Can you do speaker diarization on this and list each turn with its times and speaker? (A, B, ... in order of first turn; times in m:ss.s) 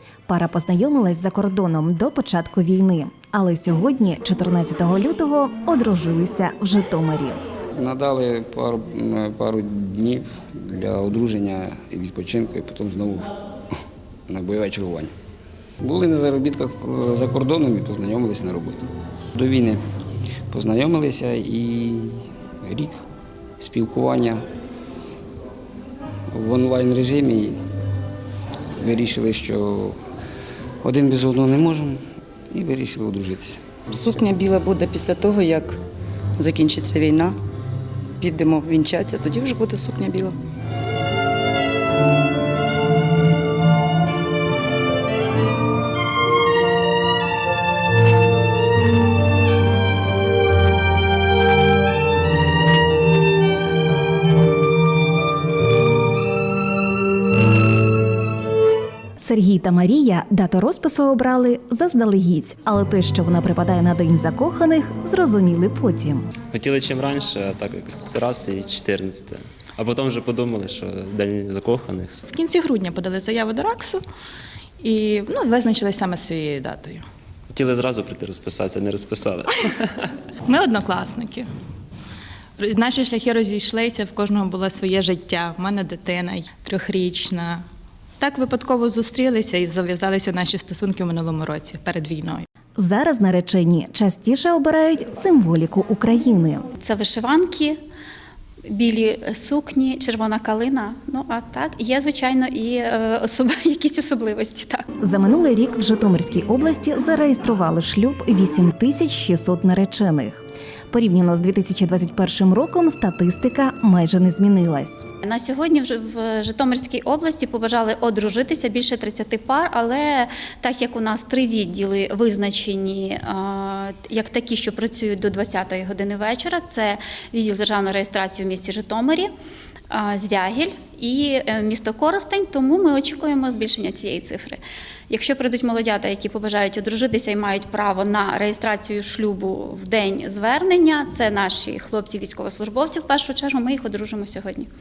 0:00.3-0:07.4 A
0:07.8-0:13.3 B
0:14.3-0:15.1 B
0:15.8-0:19.8 B
0:20.5-0:23.0 B
0:23.6-0:24.4 B
0:26.3-0:27.6 B
0:28.8-0:30.0 B
0:30.8-0:33.6 B
0:33.9-0:35.8 C
0:36.4-0:37.4 C
0:38.2-0:40.4 C
0:59.2-1:06.3 A
1:06.5-1:12.2 D
1:12.3-1:14.0 E
1:14.8-1:17.0 E
1:17.5-1:20.1 D
1:20.5-1:21.5 E
1:22.6-1:27.6 E
1:28.2-1:32.5 E
1:32.8-1:36.7 A
1:36.8-1:37.8 F
1:38.7-1:44.9 F
1:45.0-1:55.0 A
1:55.2-2:09.3 F
2:09.9-2:24.7 F